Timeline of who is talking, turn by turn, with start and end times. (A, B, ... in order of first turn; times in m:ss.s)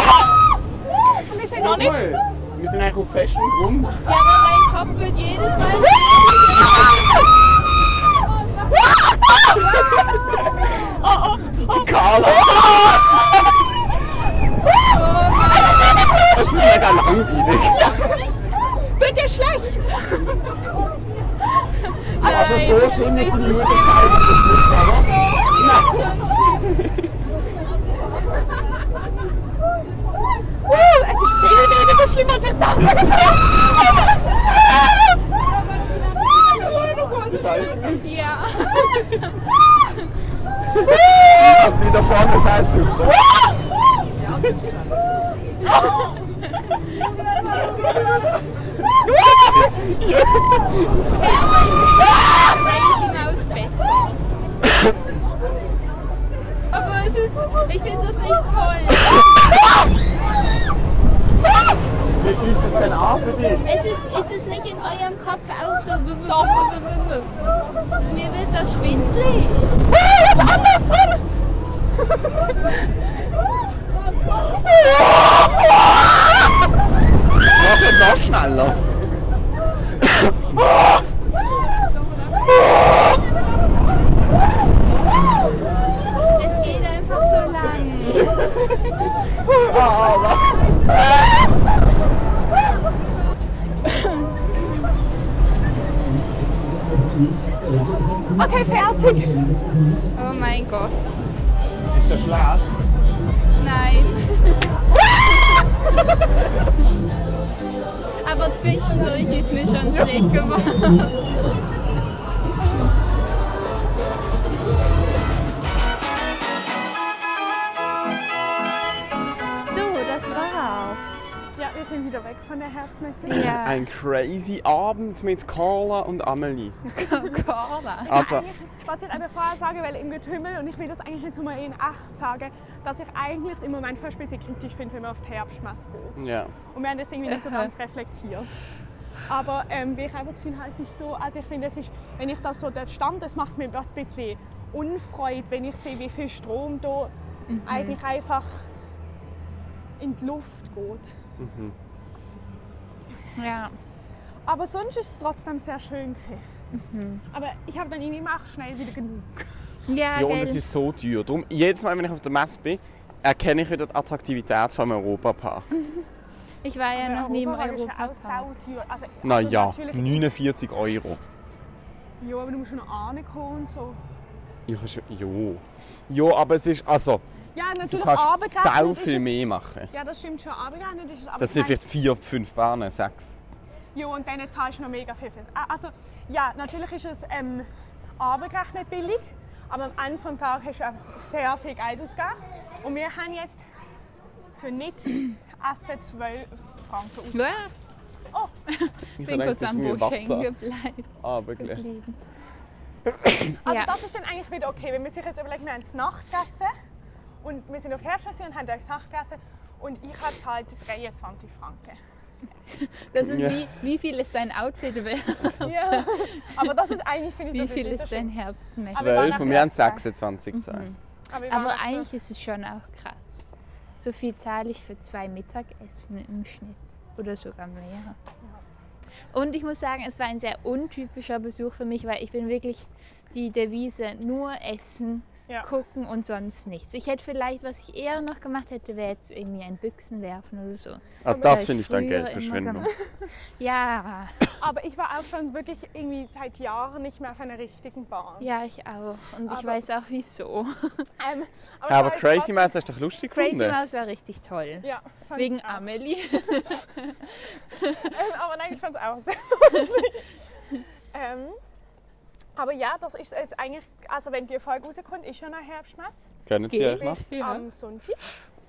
0:01.2-0:02.2 A
0:01.5-0:04.1 B
0:04.0-0:07.0 C
0:10.8-0:11.9 A
0:11.6-0:13.4 B
0:14.9-0:16.2 C
0:16.0-0:18.2 B
0:19.0-0:20.4 A
0:21.6-0:24.3 C
0:22.2-0:27.1 B
0:25.1-0:26.7 C
0:30.6-0:34.1 A
0:36.6-0:39.5 C
0:37.2-0:38.1 B
0:40.7-0:43.6 B
0:46.5-0:48.2 C
0:49.0-0:51.4 B
0:51.2-0:54.2 C
0:56.7-0:59.6 C
1:02.2-1:03.6 B
1:03.6-1:07.2 C
1:06.3-1:07.2 A
1:08.0-1:09.7 C
1:17.4-1:18.8 B
1:20.0-1:20.8 B
1:26.3-1:28.4 C
1:28.1-1:28.7 B
1:29.5-1:31.5 B
1:33.8-1:34.9 C
1:38.4-1:39.5 A
1:40.1-1:41.1 C
1:41.9-1:42.7 B
1:43.6-1:44.8 C
1:48.2-1:51.1 C
1:59.7-2:01.3 C
2:01.6-2:03.5 A
2:03.2-2:03.9 C
2:03.4-2:07.0 B
2:06.9-2:08.4 C
2:08.1-2:18.6 A
2:08.1-2:08.5 B
2:16.2-2:16.5 B
2:17.3-2:17.7 C
2:19.2-2:27.1 A
2:27.5-2:28.0 C
2:27.6-2:28.6 A
2:30.0-2:31.1 A
2:31.4-2:31.7 B
2:33.3-2:33.7 C
2:34.4-2:36.4 A
2:36.7-2:37.2 C
2:37.3-2:39.5 A
2:39.9-2:40.6 C
2:40.1-2:45.7 B
2:45.7-2:46.0 C
2:46.6-2:48.5 C
2:47.0-2:50.3 A
2:49.2-2:51.2 B
2:52.2-2:54.0 A
2:54.7-2:57.2 B
2:57.5-2:59.3 A
2:57.8-2:59.9 B
2:59.9-3:01.8 A
3:01.4-3:03.3 B
3:03.9-3:07.7 A
3:08.2-3:13.6 A
3:14.6-3:17.5 A
3:17.3-3:17.7 C
3:18.7-3:22.2 C
3:19.2-3:20.5 B
3:21.2-3:21.8 B
3:23.5-3:24.0 C
3:23.6-3:26.7 A
3:27.4-3:32.0 A
3:32.7-3:36.5 C
3:33.2-3:33.6 B
3:35.6-3:38.3 A
3:37.5-3:43.4 C
3:38.9-3:39.9 A
3:38.9-3:40.9 B
3:41.3-3:42.1 A
3:44.0-3:48.2 C
3:49.3-4:02.9 C
4:01.2-4:02.9 B
4:01.3-4:01.7 A
4:02.9-4:03.3 A
4:03.6-4:04.5 C
4:04.6-4:08.5 A
4:08.4-4:11.1 C
4:09.5-4:09.8 A
4:11.2-4:12.7 A
4:11.9-4:13.8 B
4:13.3-4:18.0 C
4:14.8-4:15.9 A
4:17.8-4:20.3 A
4:21.1-4:21.6 A
4:22.6-4:26.3 A
4:26.5-4:27.2 B
4:26.7-4:27.6 C
4:26.9-4:28.2 A